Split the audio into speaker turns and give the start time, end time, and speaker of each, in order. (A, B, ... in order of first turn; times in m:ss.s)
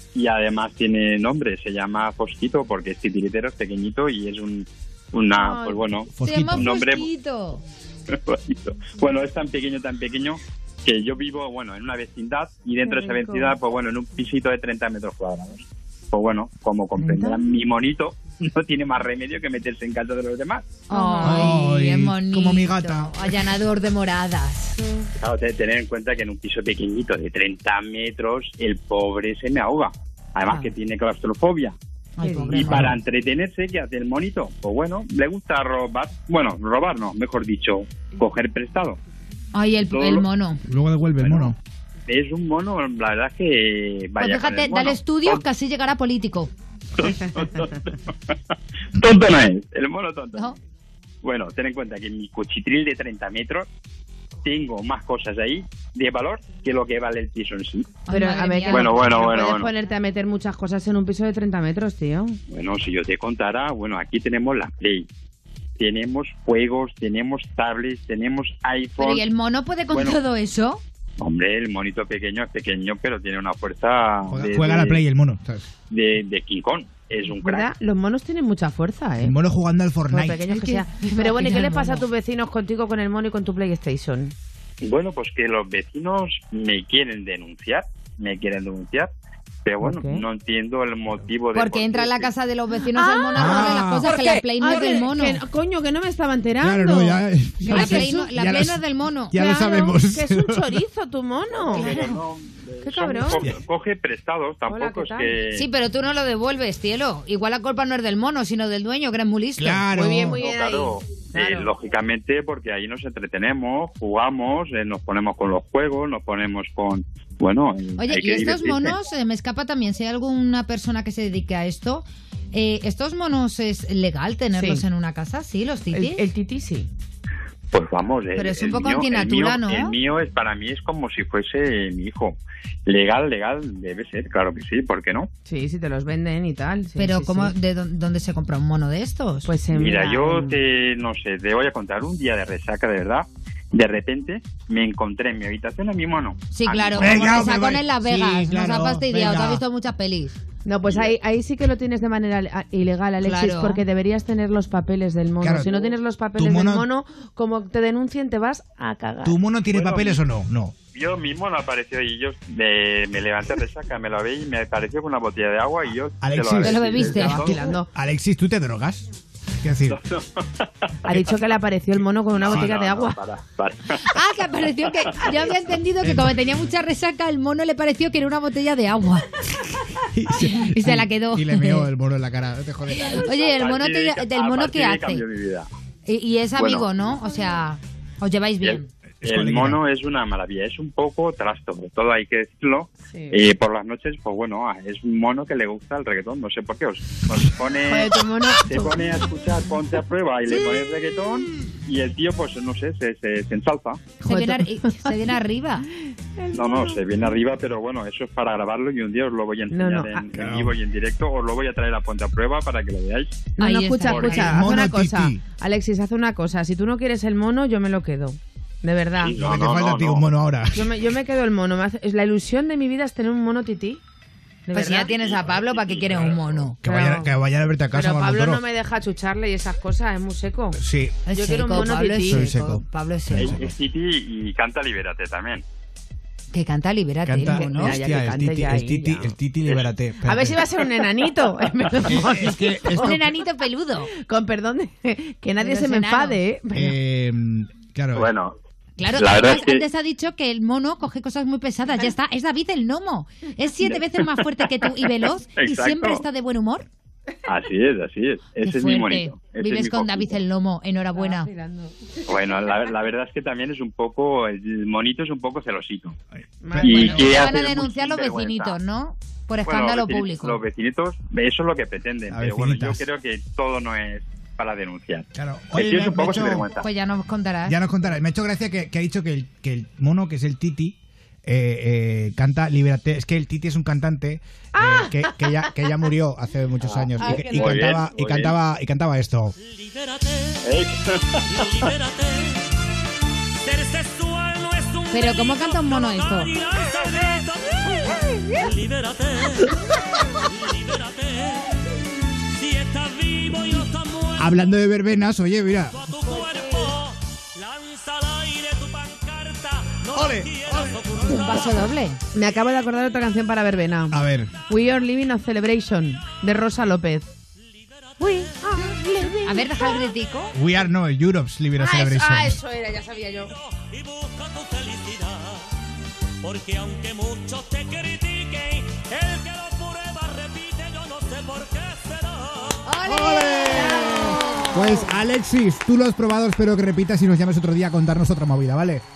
0:00.2-0:07.1 A
0:05.3-0:05.9 B
0:06.2-0:06.7 C
0:06.2-0:07.6 D
0:08.1-0:20.9 A
0:12.8-0:13.6 B
0:17.0-0:17.5 B
0:20.9-0:24.8 D
0:20.9-0:21.7 B
0:21.2-0:23.4 C
0:25.2-0:31.8 A
0:30.5-0:30.8 B
0:32.2-0:32.9 D
0:32.2-0:32.9 B
0:32.6-0:33.0 C
0:32.8-0:39.0 A
0:39.5-0:40.6 D
0:39.9-0:40.2 A
0:40.7-0:41.6 C
0:41.2-0:41.6 A
0:42.1-0:45.4 A
0:44.2-0:46.5 D
0:47.0-0:48.4 A
0:49.0-0:50.5 A
0:51.2-0:53.7 A
0:54.4-0:58.1 A
0:58.1-0:59.4 D
0:58.1-1:02.4 B
0:58.7-0:59.7 A
1:02.5-1:05.1 A
1:05.8-1:09.3 A
1:09.0-1:10.8 D
1:09.9-1:10.2 A
1:11.2-1:15.0 A
1:14.3-1:15.7 C
1:15.9-1:17.7 A
1:17.3-1:19.4 B
1:19.2-1:20.5 C
1:20.1-1:24.3 B
1:20.5-1:22.0 D
1:24.8-1:29.1 A
1:29.6-1:32.3 A
1:29.8-1:30.2 B
1:31.5-1:35.4 D
1:32.9-1:38.3 B
1:33.4-1:34.1 C
1:36.6-1:40.7 C
1:37.7-1:39.4 D
1:39.3-1:42.2 B
1:41.5-1:45.6 A
1:42.8-1:43.5 B
1:44.7-1:45.4 B
1:45.6-1:49.8 D
1:49.6-1:50.4 C
1:49.9-1:51.7 B
1:50.4-1:59.0 A
1:58.0-2:06.2 D
2:04.5-2:04.8 B
2:05.9-2:06.9 B
2:07.7-2:15.3 A
2:08.4-2:10.0 D
2:15.5-2:17.5 B
2:17.0-2:19.5 D
2:19.5-2:20.6 B
2:19.7-2:27.3 A
2:26.5-2:30.4 D
2:26.9-2:29.6 C
2:30.6-2:39.4 B
2:30.9-2:31.2 A
2:33.2-2:33.8 D
2:35.4-2:35.7 C
2:36.4-2:36.9 C
2:39.2-2:40.7 C
2:39.7-2:40.2 A
2:40.9-2:47.6 A
2:46.2-2:50.0 C
2:46.6-2:47.8 D
2:46.7-2:47.9 B
2:49.9-2:51.5 A
2:51.1-2:53.2 B
2:52.3-2:54.0 A
2:54.0-2:59.3 D
2:56.0-2:56.3 C
3:00.0-3:03.2 C
3:00.3-3:01.9 D
3:02.9-3:05.2 D
3:03.0-3:05.7 A
3:06.1-3:08.9 D
3:06.6-3:06.9 A
3:08.6-3:24.2 A
3:09.2-3:09.8 C
3:13.0-3:13.4 B
3:17.8-3:19.0 B
3:24.2-3:25.2 B
3:24.3-3:25.9 D
3:26.1-3:27.3 B
3:26.5-3:33.5 A
3:29.7-3:30.3 B
3:30.3-3:30.7 C
3:33.5-3:39.4 B
3:33.6-3:34.7 D
3:34.1-3:34.5 A
3:34.5-3:35.4 C
3:39.2-3:40.3 A
3:39.4-3:40.9 C
3:40.7-3:44.0 B
3:44.7-3:45.1 B
3:44.7-3:46.8 D
3:45.2-3:46.7 A
3:46.8-3:48.6 C
3:46.8-3:47.3 B
3:47.9-3:50.8 B
3:50.8-3:51.2 C
3:51.3-3:53.6 D
3:51.3-3:52.4 B
3:52.3-3:53.7 C
3:53.3-3:55.6 A
3:56.5-3:58.0 D
3:57.2-4:00.6 C
3:57.5-3:59.3 B
4:00.2-4:03.2 B
4:02.0-4:03.2 C
4:03.0-4:04.1 D
4:04.2-4:07.0 B
4:05.6-4:06.4 D
4:06.7-4:08.3 C
4:08.2-4:08.5 A
4:09.0-4:16.9 D
4:09.1-4:09.8 A
4:15.6-4:16.2 A
4:17.5-4:20.4 A
4:18.6-4:21.5 D
4:21.2-4:22.9 B
4:22.3-4:26.2 A
4:26.6-4:27.5 B
4:26.7-4:27.3 C
4:26.8-4:30.6 D
4:26.8-4:28.8 A
4:29.6-4:36.9 A
4:32.3-4:33.0 C
4:35.4-4:36.6 C
4:36.8-4:37.8 D
4:37.7-4:49.6 C
4:44.8-4:45.7 B
4:46.8-4:48.6 A
4:47.2-4:47.8 B
4:50.6-4:51.9 A
4:51.6-4:52.6 E
4:53.6-4:59.7 E
4:55.1-4:56.5 D
5:00.4-5:01.7 E
5:02.6-5:04.5 E
5:04.4-5:06.0 C
5:06.0-5:11.7 E
5:10.1-5:11.3 C
5:11.3-5:12.2 D
5:12.3-5:17.3 B
5:14.1-5:14.6 C
5:18.2-5:20.1 B
5:19.4-5:20.6 D
5:20.5-5:22.6 C
5:21.8-5:23.6 B
5:23.8-5:25.6 E
5:26.4-5:32.8 E
5:32.8-5:35.1 D
5:33.0-5:39.0 C
5:33.7-5:35.1 B